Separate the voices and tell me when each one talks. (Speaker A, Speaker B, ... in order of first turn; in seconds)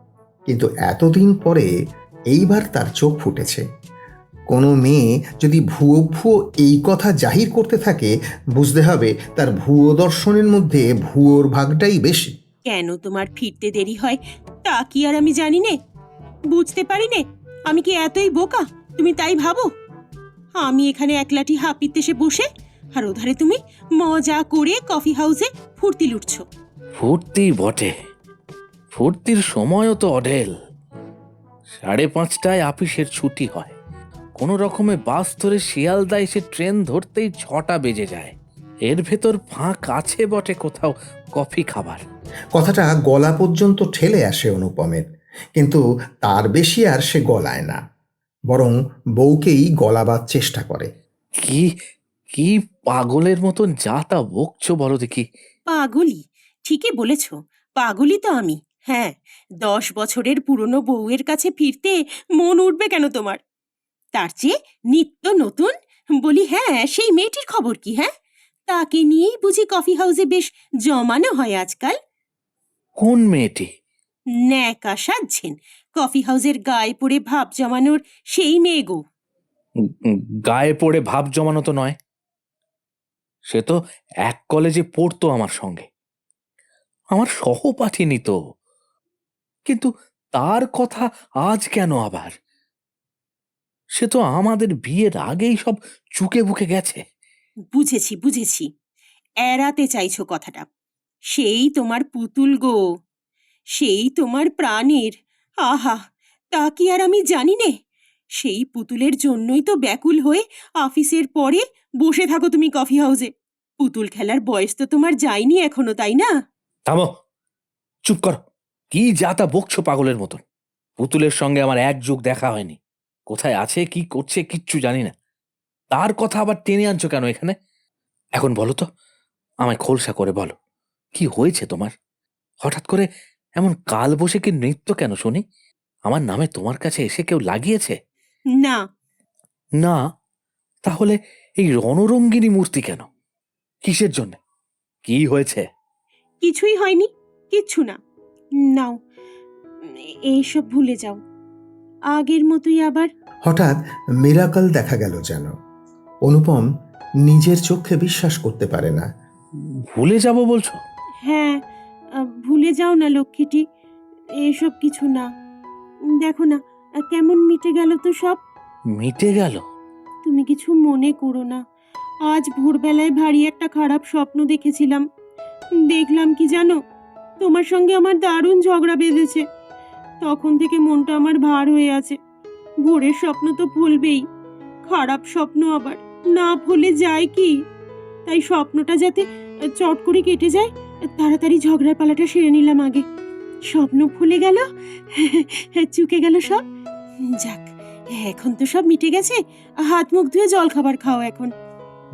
Speaker A: 0.5-1.7, 2.3-3.6, 4.5-12.3, 42.5-45.0, 45.5-47.8, 48.5-50.9, 153.5-155.5, 156.3-156.7, 157.2-159.1
Speaker B: 12.7-15.7, 16.5-19.7, 20.6-26.4, 55.7-63.4, 64.2-68.1, 68.7-72.0, 74.5-79.0, 97.7-98.7, 99.4-100.7, 101.3-102.8, 103.8-107.7, 108.4-116.3, 146.4-148.0, 149.9-151.2, 152.1-153.1, 161.2-161.6, 162.2-163.6, 164.4-165.3, 166.2-168.4, 170.2-171.6, 172.3-175.0, 175.9-176.8, 177.4-179.4, 180.2-182.2, 182.8-184.2, 184.9-187.5, 188.2-193.0, 193.7-196.6, 197.4-201.5
Speaker C: 26.9-27.9, 28.9-30.5, 31.8-33.7, 34.4-38.3, 38.9-42.0, 52.4-55.2, 73.0-73.7, 80.1-82.0, 83.5-83.7, 84.2-85.8, 87.1-88.4, 89.7-92.3, 94.0-97.0, 118.1-118.4, 118.9-120.4, 121.0-122.8, 123.3-125.1, 125.9-127.5, 128.3-128.8, 129.6-130.5, 131.1-131.9, 132.6-133.0, 133.6-135.4, 136.1-137.9, 140.8-143.1, 143.8-144.4, 145.0-145.6, 159.9-160.8, 169.0-169.6